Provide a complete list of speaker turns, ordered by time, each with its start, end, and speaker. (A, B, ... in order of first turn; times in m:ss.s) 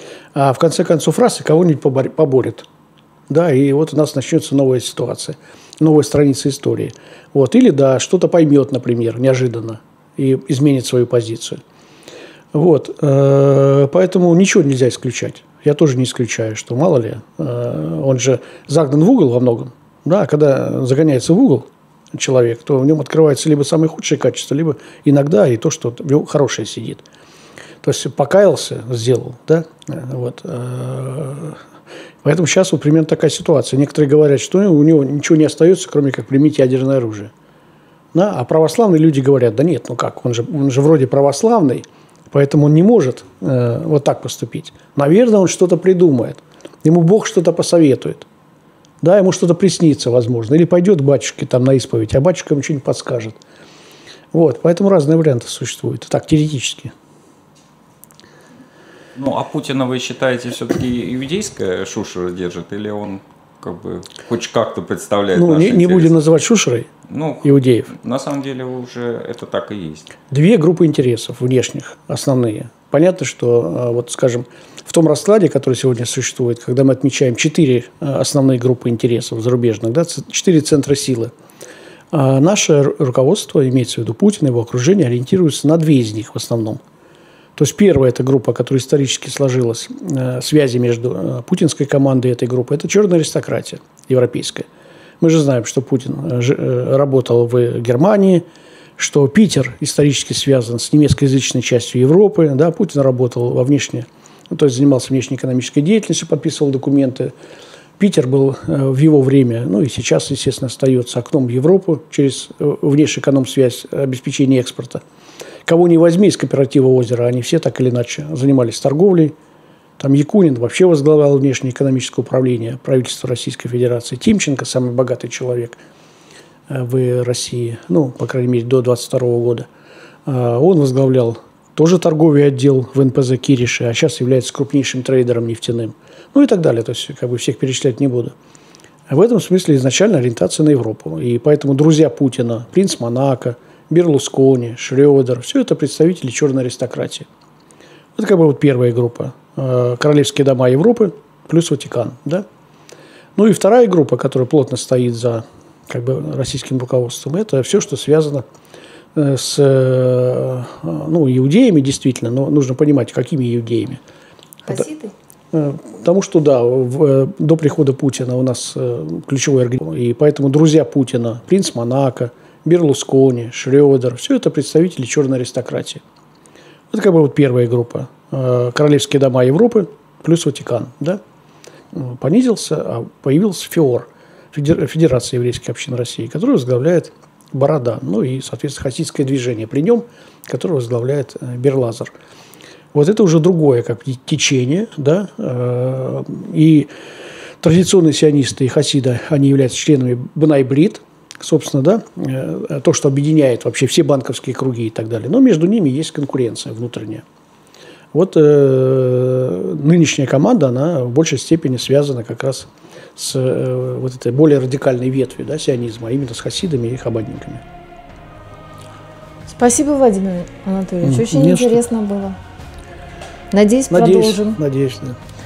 0:00.3-0:02.6 A
0:03.3-0:11.6 A
0:12.5-0:27.0 A
0:27.8-0:31.6 A
0:32.2-0:37.3 A
0:38.1-0:48.3 A
0:49.0-0:53.4 A
0:54.3-0:56.9 A
0:59.1-1:06.2 B
1:05.3-1:06.9 A
1:07.1-1:10.1 B
1:07.4-1:07.9 A
1:10.3-1:21.3 A
1:22.1-1:26.8 A
1:27.6-1:34.7 A
1:35.2-1:38.4 A
1:39.0-1:47.3 A
1:48.0-1:55.0 A
1:55.6-1:59.3 A
2:00.0-2:05.8 A
2:06.7-2:09.7 A
2:10.2-2:18.3 A
2:19.1-2:27.3 A
2:28.2-2:32.4 A
2:33.4-2:38.4 A
2:39.1-2:44.0 A
2:44.6-2:45.1 C
2:45.5-2:56.0 A
2:56.9-3:01.2 A
3:01.9-3:12.1 A
3:12.9-3:16.9 A
3:17.6-3:27.2 A
3:28.1-3:37.6 A
3:39.5-3:42.4 C
3:41.0-3:41.8 A
3:43.5-3:44.6 C
3:43.9-3:45.2 A